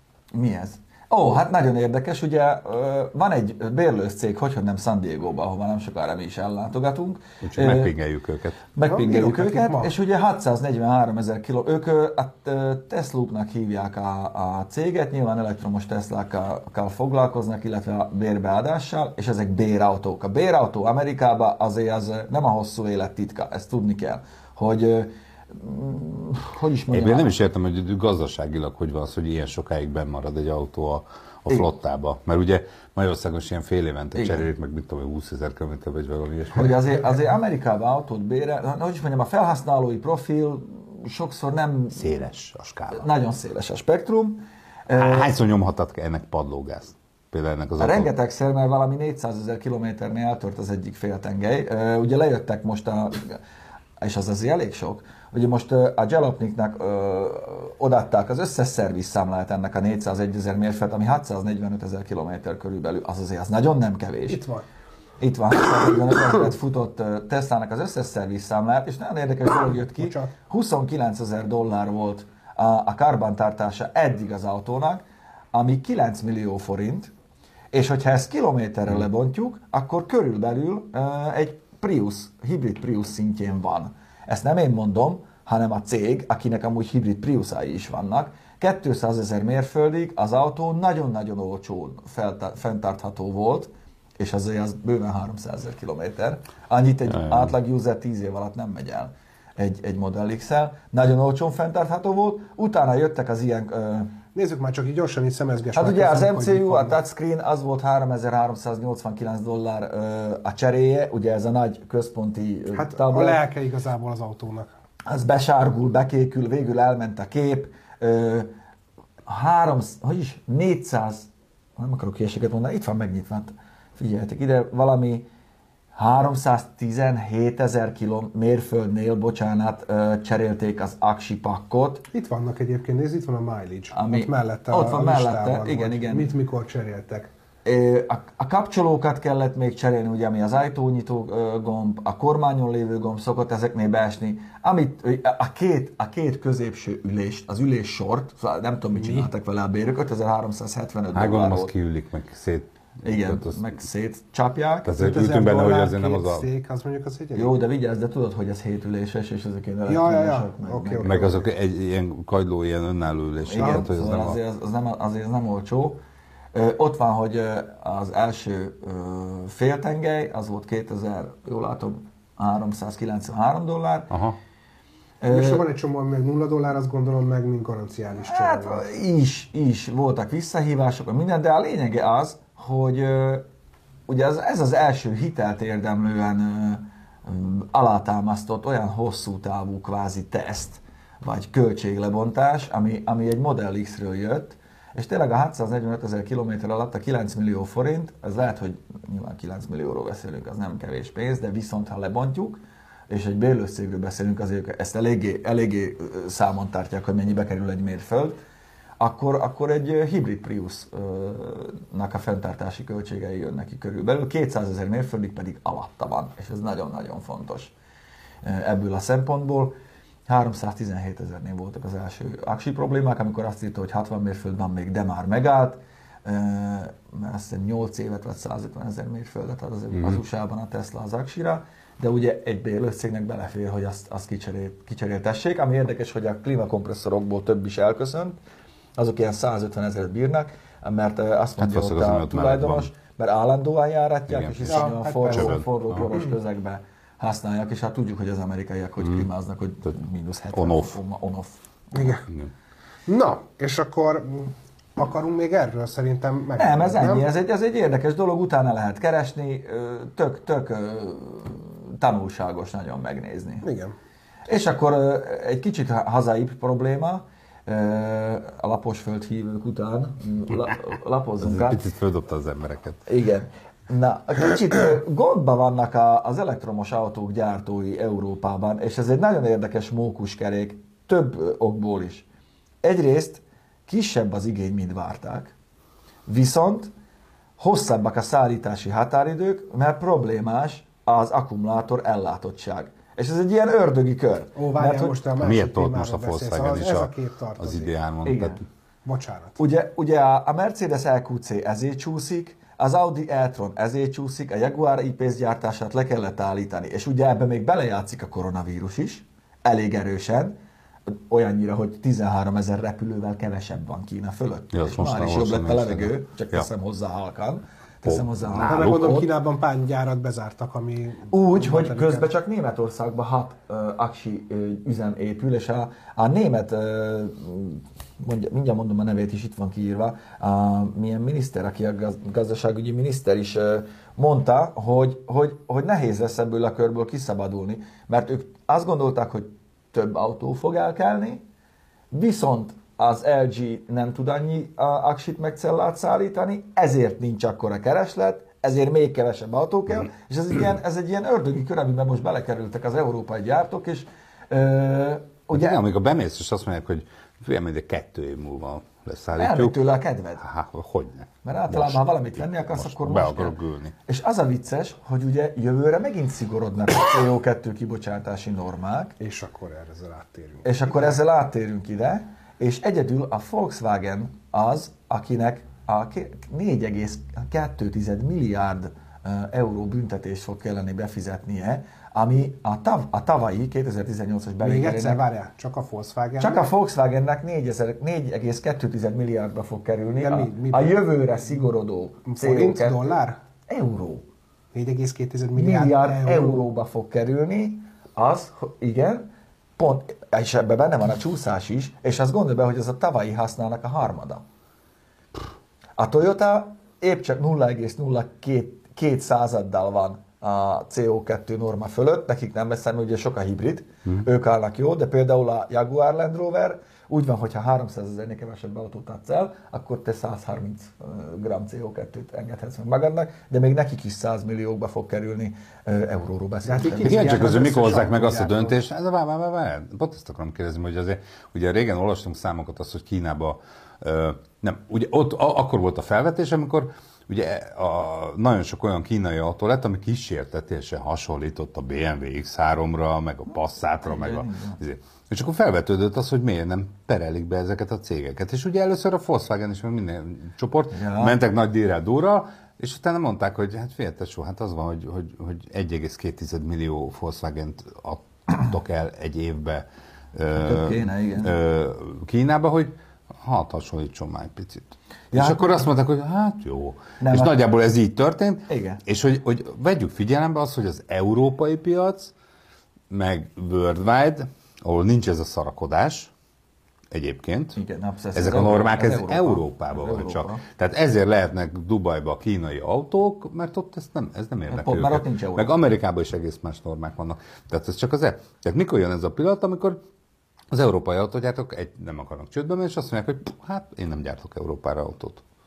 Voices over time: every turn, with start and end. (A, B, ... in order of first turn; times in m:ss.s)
0:00.3-0:07.9 A
0:07.4-0:08.6 B
0:08.8-0:27.4 A
0:08.9-0:09.9 C
0:26.9-0:36.8 B
0:34.1-0:34.5 A
0:36.5-0:42.1 A
0:42.0-0:43.0 B
0:42.9-0:45.3 A
0:45.0-0:48.1 B
0:47.8-0:53.4 A
0:54.0-1:04.4 A
1:04.3-1:04.6 C
1:05.2-1:17.1 A
1:10.0-1:10.3 C
1:17.7-1:44.1 A
1:37.2-1:37.5 B
1:44.3-1:47.0 C
1:45.8-1:53.4 A
1:52.7-1:54.7 C
1:55.0-1:58.5 A
1:59.2-2:05.3 A
2:06.0-2:12.0 A
2:12.1-2:17.3 C
2:13.9-2:16.3 A
2:17.6-2:31.7 A
2:29.0-2:29.3 C
2:31.1-2:33.6 B
2:33.0-2:35.0 A
2:34.9-2:36.5 B
2:35.0-2:37.5 C
2:37.4-2:41.4 A
2:39.9-2:41.4 C
2:41.0-2:44.4 B
2:43.4-2:46.0 A
2:43.6-2:43.9 C
2:46.5-2:54.1 A
2:54.1-2:54.4 B
2:55.2-2:55.6 A
2:55.3-2:58.9 C
2:58.2-3:03.4 A
3:04.1-3:28.4 A
3:29.0-3:37.7 A
3:38.4-3:39.8 A
3:40.3-3:58.4 A
3:59.0-4:12.1 A
4:01.6-4:02.9 B
4:04.3-4:06.1 B
4:04.7-4:05.6 C
4:10.5-4:11.0 B
4:11.9-4:12.2 C
4:13.1-4:17.3 C
4:16.6-4:23.7 A
4:23.6-4:24.0 C
4:24.5-4:31.8 A
4:31.4-4:33.0 B
4:33.1-4:42.2 A
4:42.8-4:45.5 A
4:46.2-4:46.9 A
4:47.6-4:55.2 A
4:54.5-4:57.9 C
4:55.4-4:58.6 B
4:58.2-4:58.6 A
4:59.0-4:59.6 C
4:59.6-5:10.6 A
5:11.1-5:19.3 A
5:14.7-5:16.7 B
5:18.0-5:19.2 B
5:18.7-5:22.3 C
5:21.3-5:41.4 A
5:42.1-5:55.8 A
5:55.5-5:59.8 B
5:59.4-6:00.4 A
6:00.4-6:04.0 B
6:01.4-6:09.2 A
6:09.2-6:11.2 C
6:10.6-6:25.2 A
6:24.6-6:26.6 C
6:26.4-6:33.1 A
6:30.2-6:31.0 C
6:32.2-6:33.4 C
6:33.7-6:34.2 A
6:34.7-6:36.6 C
6:35.6-6:44.4 A
6:46.0-7:07.7 A
7:06.6-7:08.8 C
7:07.0-7:52.3 B
7:24.0-7:24.8 A
7:30.9-7:31.4 A
7:40.6-7:41.6 A
7:45.3-7:45.9 A
7:47.2-7:47.6 A
7:48.7-7:49.0 A
7:53.1-7:56.3 B
7:57.1-7:57.8 B
7:57.8-8:00.6 A
7:58.3-8:10.0 B
8:04.7-8:05.7 A
8:10.7-8:15.4 B